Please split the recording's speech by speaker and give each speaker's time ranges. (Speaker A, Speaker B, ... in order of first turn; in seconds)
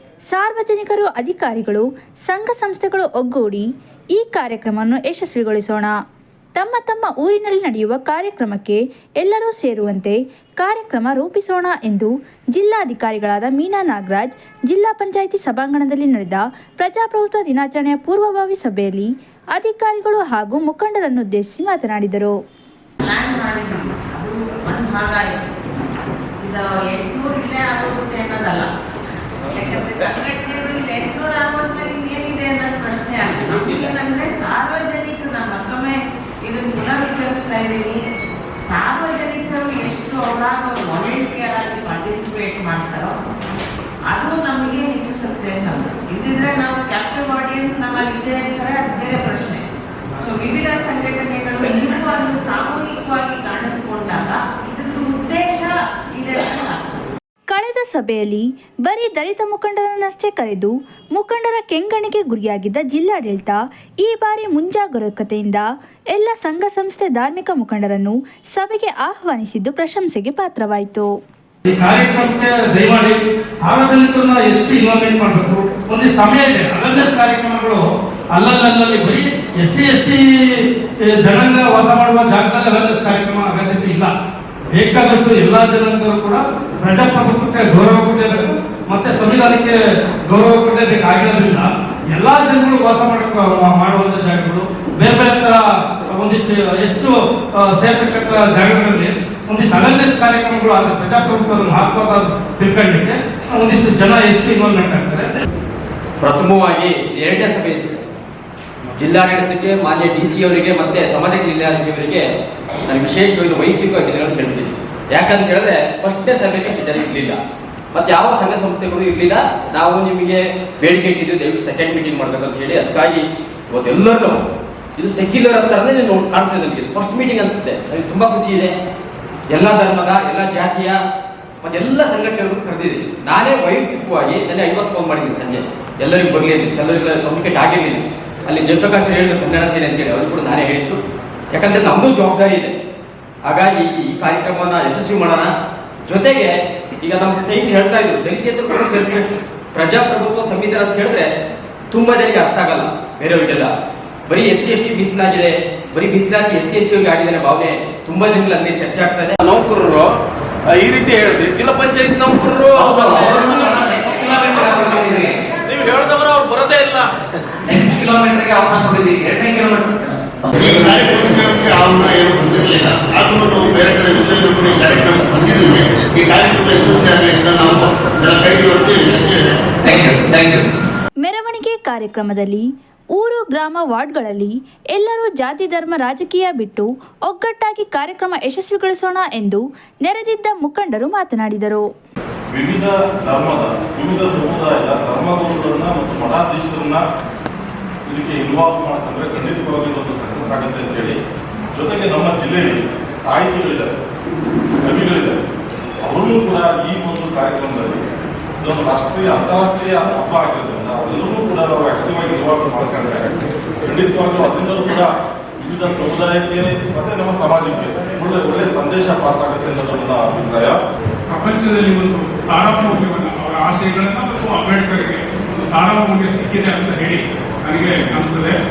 Speaker A: 0.3-5.9, 6.5-22.4, 57.5-71.1, 181.2-191.8
Speaker B: 23.0-25.5, 26.4-28.7, 29.5-38.0, 38.6-43.2, 44.1-49.6, 50.2-57.0
Speaker C: 71.7-77.8, 78.4-80.2, 81.2-84.1, 84.8-89.8, 90.3-97.1, 97.7-105.3
Speaker D: 106.2-108.0, 109.0-112.2, 112.9-117.4, 117.9-124.4, 125.0-128.7, 129.5-131.0, 131.6-141.0, 141.5-142.8, 143.4-145.5, 146.1-151.3, 151.9-153.7, 154.3-159.4
Speaker E: 159.4-160.1, 160.7-165.1, 165.7-167.1
Speaker F: 162.8-165.3, 167.7-171.5, 179.8-180.6
Speaker G: 171.4-179.6
Speaker H: 192.5-197.0, 198.1-201.2, 201.7-203.9, 204.8-205.4, 206.0-208.0, 208.6-213.3, 213.8-220.8
Speaker I: 221.3-228.6